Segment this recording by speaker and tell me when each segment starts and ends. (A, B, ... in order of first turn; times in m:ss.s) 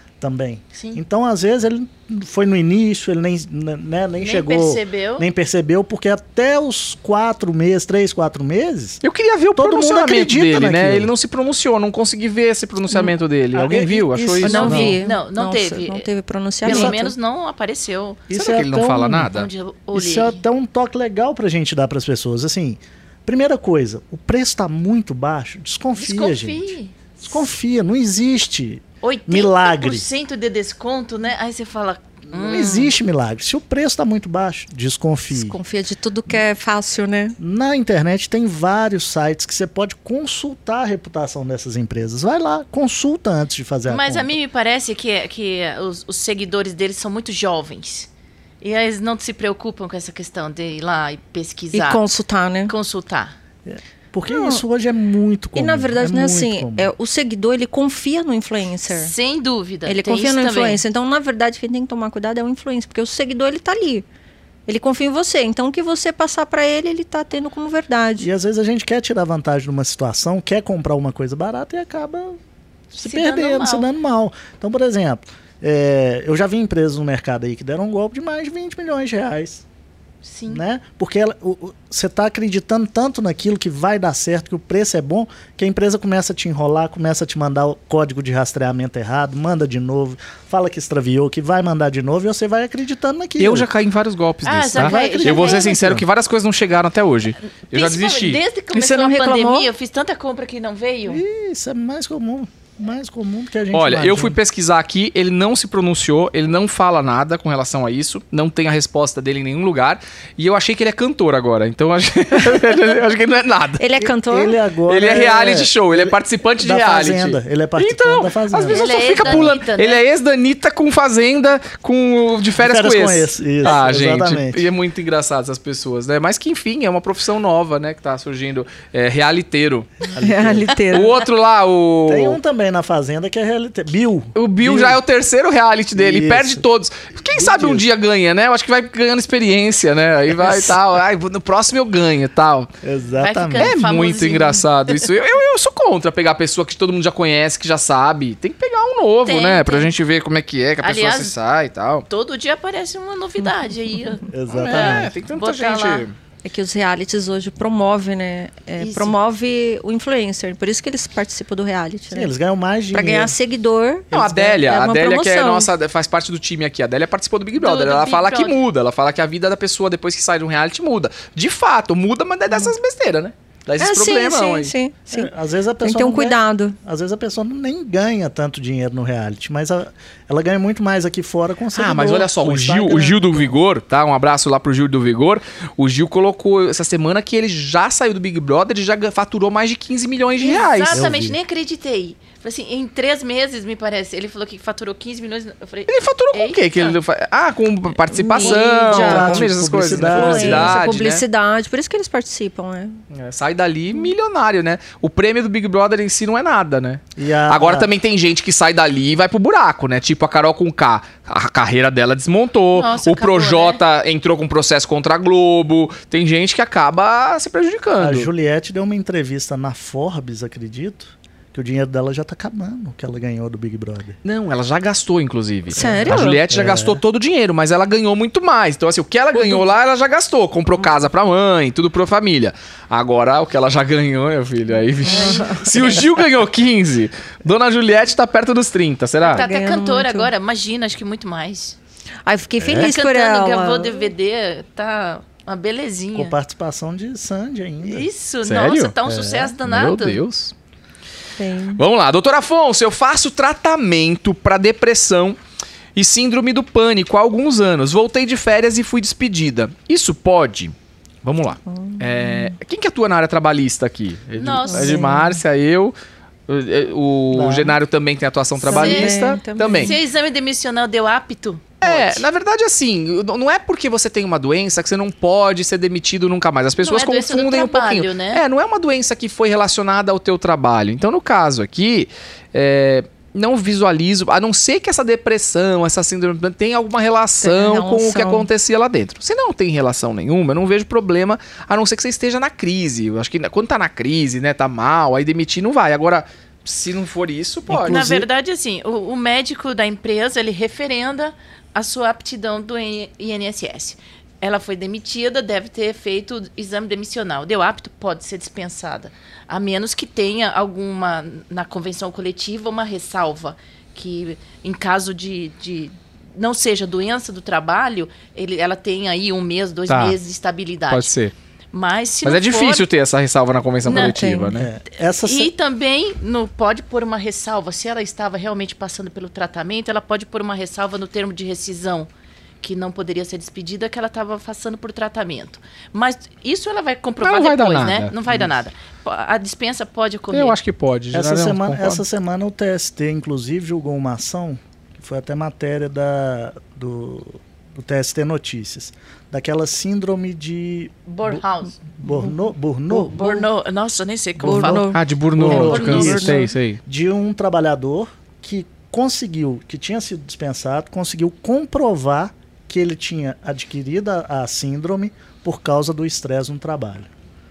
0:00.2-0:09.0 A
0:00.7-0:01.0 B
0:04.2-0:05.2 B
0:09.0-0:15.0 C
0:09.5-0:11.1 A
0:13.5-0:15.0 A
0:14.4-0:16.1 B
0:14.4-0:17.1 D
0:16.6-0:18.2 B
0:16.6-0:16.9 A
0:18.3-0:19.3 A
0:18.3-0:19.5 C
0:19.2-0:20.4 B
0:19.9-0:30.0 A
0:26.0-0:26.9 B
0:29.0-0:32.9 B
0:32.4-0:35.6 A
0:35.3-0:37.4 D
0:37.4-0:44.3 A
0:43.9-0:48.1 B
0:48.6-0:52.0 B
0:51.7-0:52.7 D
0:52.7-0:53.3 B
0:53.6-0:56.9 A
0:54.3-0:54.6 D
0:55.6-0:59.1 D
0:58.9-1:00.8 B
0:59.8-1:04.0 D
1:04.7-1:08.3 D
1:08.2-1:12.4 A
1:12.9-1:19.6 A
1:13.0-1:13.9 B
1:20.2-1:20.6 B
1:20.5-1:33.7 A
1:33.4-1:38.4 C
1:34.4-1:35.9 B
1:34.7-1:36.0 A
1:37.6-1:41.2 B
1:38.7-1:39.7 D
1:41.1-1:44.4 A
1:43.7-1:53.8 C
1:53.8-1:54.6 D
1:54.0-1:59.5 A
1:54.9-2:10.1 C
1:58.7-2:00.0 B
2:02.6-2:04.6 A
2:10.1-2:10.7 A
2:10.1-2:11.1 D
2:10.9-2:12.4 C
2:12.0-2:15.0 A
2:14.4-2:22.7 C
2:15.9-2:16.6 A
2:17.3-2:17.8 A
2:22.8-2:23.7 A
2:23.2-2:25.1 B
2:23.6-2:32.0 C
2:29.2-2:29.9 B
2:30.8-2:31.3 B
2:32.1-2:36.1 B
2:34.3-2:35.1 A
2:34.5-2:36.1 C
2:36.4-2:42.3 D
2:38.8-2:39.2 B
2:42.1-2:43.4 A
2:42.9-2:45.7 D
2:44.1-2:54.7 C
2:47.5-2:48.6 B
2:53.8-2:55.3 D
2:55.1-3:03.6 A
2:55.8-2:56.8 D
3:01.7-3:11.0 C
3:10.4-3:17.0 B
3:10.9-3:11.4 A
3:15.9-3:21.2 C
3:18.1-3:23.0 D
3:18.3-3:19.2 B
3:18.8-3:20.8 A
3:23.1-3:38.3 C
3:27.2-3:27.9 A
3:32.7-3:33.8 B
3:38.0-3:44.2 A
3:44.2-3:59.4 C
3:45.7-3:46.4 D
3:45.8-3:47.0 A
3:49.3-3:49.6 D
3:55.0-3:56.0 D
3:55.0-3:56.0 B
3:59.2-4:01.8 B
3:59.3-4:00.3 D
4:02.2-4:04.1 D
4:02.6-4:03.0 A
4:02.7-4:06.3 B
4:06.1-4:08.1 A
4:07.8-4:10.2 B
4:08.4-4:08.9 C
4:09.0-4:09.5 A
4:09.6-4:10.5 C
4:11.4-4:11.8 D
4:11.8-4:15.4 C
4:15.9-4:25.9 C
4:21.7-4:22.5 D
4:24.4-4:25.1 B
4:24.7-4:25.4 D
4:26.5-4:29.9 C
4:27.3-4:27.7 A
4:28.6-4:32.2 B
4:28.7-4:30.0 D
4:31.8-4:58.0 C
4:36.8-4:38.4 B
4:47.4-4:48.5 D
4:57.7-4:58.2 A
4:57.8-5:21.1 B
5:19.9-5:20.2 C
5:20.9-5:21.3 C
5:21.7-5:22.8 B
5:22.2-5:24.7 C
5:23.8-5:24.2 B
5:23.8-5:24.6 D
5:24.5-5:25.5 A
5:25.0-5:32.1 B
5:32.6-5:40.6 B
5:37.2-5:38.1 C
5:40.3-5:42.0 C
5:41.1-5:51.4 A
5:51.1-5:52.0 B
5:52.0-5:53.2 A
5:52.9-5:56.4 B
5:54.4-6:07.1 A
5:54.4-5:55.0 D
5:54.9-5:56.8 C
5:55.5-5:56.4 D